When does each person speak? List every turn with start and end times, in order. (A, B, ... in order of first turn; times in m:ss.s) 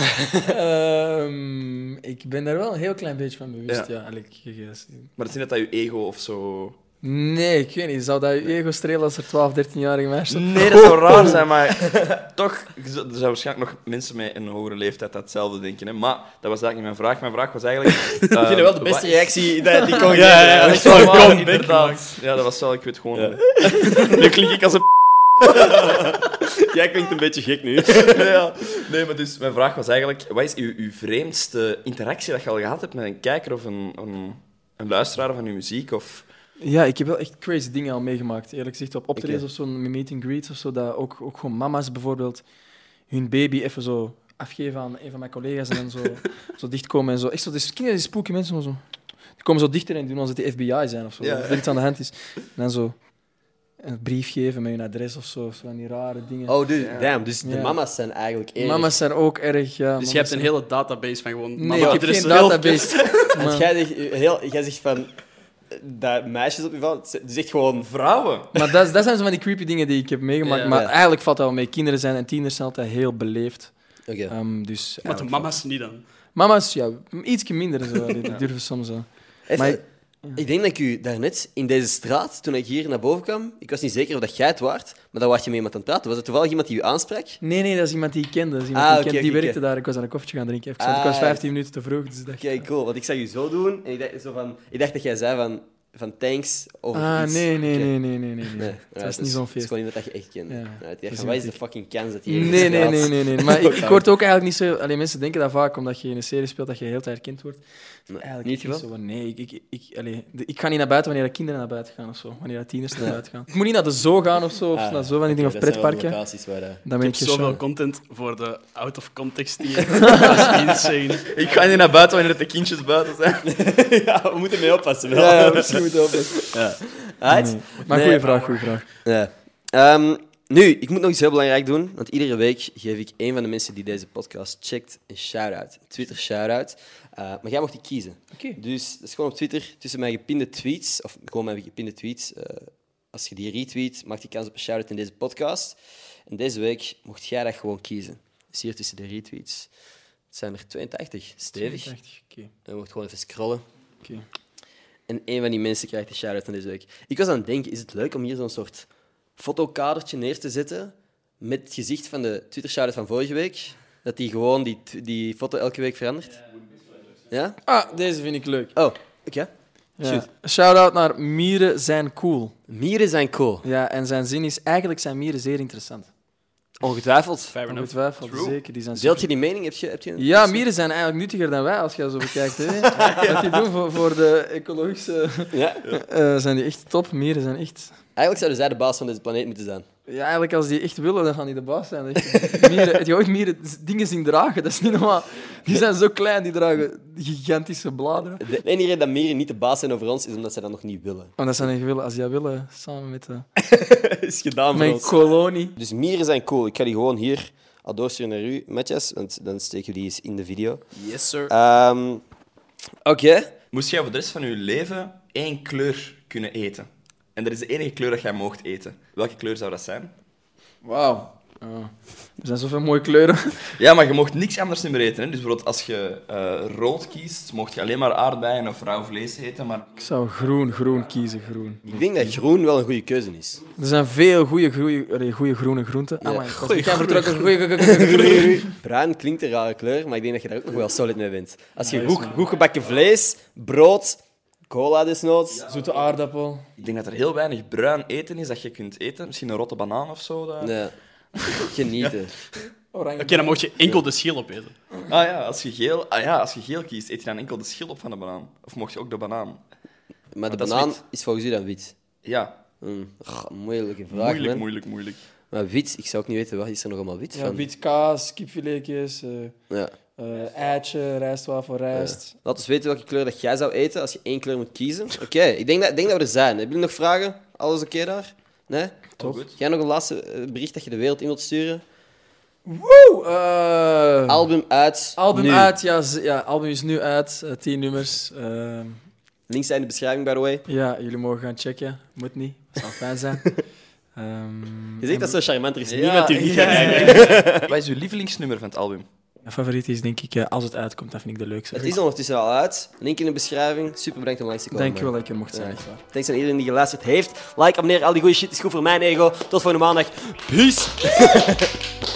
0:00.3-0:05.1 A
0:05.2-0:06.8 B
0:07.0-0:11.4 A
0:10.3-0:18.8 B
0:18.4-0:21.4 C
0:19.8-0:22.1 D
0:20.6-0:24.9 B
0:23.2-0:24.3 C
0:24.0-0:24.3 D
0:25.4-0:28.3 C
0:28.0-0:36.2 B
0:36.6-0:42.4 A
0:39.2-0:39.4 C
0:43.1-0:48.8 A
0:49.4-0:52.9 A
0:51.2-0:51.7 B
0:53.8-0:56.6 A
0:56.5-0:59.0 C
0:56.8-0:57.1 B
0:57.4-0:57.8 A
0:58.6-1:00.5 A
1:00.0-1:03.0 D
1:01.6-1:03.7 A
1:03.0-1:03.2 B
1:03.3-1:05.2 C
1:05.7-1:07.9 C
1:07.8-1:08.6 B
1:08.5-1:13.7 A
1:10.6-1:10.9 C
1:14.1-1:14.3 C
1:14.3-1:15.6 A
1:15.0-1:16.0 D
1:16.3-1:20.4 A
1:19.5-1:19.8 C
1:20.3-1:27.4 C
1:27.4-1:32.6 A
1:28.7-1:29.6 C
1:30.8-1:31.4 C
1:32.4-1:37.9 C
1:36.9-1:39.7 A
1:38.5-1:44.1 C
1:40.5-1:41.6 A
1:42.2-1:47.6 A
1:48.1-1:48.8 C
1:48.2-1:56.2 A
1:54.7-1:56.8 C
1:56.8-1:57.6 A
1:57.0-2:01.8 D
2:00.0-2:00.6 A
2:01.3-2:03.5 B
2:03.4-2:08.2 C
2:05.1-2:06.5 A
2:07.3-2:08.8 A
2:08.1-2:08.6 D
2:09.0-2:29.7 C
2:30.3-2:31.9 C
2:31.5-2:32.5 A
2:32.6-2:33.6 C
2:35.1-2:46.4 C
2:47.3-2:47.6 C
2:47.6-2:48.7 A
2:48.8-2:49.5 C
2:50.0-2:52.5 A
2:52.7-2:53.6 C
2:53.6-2:56.1 A
2:56.8-2:57.6 C
2:57.5-2:57.9 D
2:57.7-2:59.3 A
2:58.2-2:58.6 B
2:59.0-3:00.6 C
3:00.2-3:08.0 A
3:02.9-3:03.6 C
3:05.5-3:05.8 C
3:08.2-3:09.8 C
3:10.1-3:18.4 A
3:12.3-3:13.0 C
3:18.4-3:21.3 C
3:21.4-3:23.4 A
3:23.6-3:25.2 C
3:24.7-3:25.8 A
3:25.8-3:30.8 C
3:31.0-3:31.5 D
3:31.5-3:32.2 C
3:33.0-3:33.5 C
3:33.7-3:40.1 B
3:40.8-3:43.7 A
3:43.8-3:49.9 B
3:50.0-3:52.4 A
3:51.8-3:53.6 C
3:53.8-3:58.7 A
3:56.2-3:57.1 C
3:56.6-3:57.4 D
3:57.8-4:05.7 C
4:01.8-4:02.4 A
4:05.7-4:06.7 A
4:06.8-4:10.7 B
4:10.6-4:10.9 C
4:11.5-4:12.3 C
4:12.9-4:13.6 A
4:13.2-4:14.7 D
4:15.0-4:19.6 B
4:20.3-4:21.9 C
4:20.5-4:21.0 B
4:22.2-4:22.6 B
4:22.8-4:24.6 C
4:24.1-4:25.2 B
4:25.5-4:27.6 C
4:27.3-4:29.6 A
4:30.2-4:32.3 A
4:31.9-4:41.8 C
4:39.2-4:39.4 A
4:39.2-4:39.5 B
4:42.6-4:44.5 A
4:44.3-4:45.7 C
4:45.2-4:49.0 A
4:49.5-4:50.6 C
4:50.6-4:53.5 A
4:54.2-4:55.3 A
4:55.0-4:57.7 C
4:55.8-4:59.1 B
4:56.6-4:57.3 A
4:59.4-5:02.0 A
5:01.7-5:11.8 C
5:04.7-5:06.0 A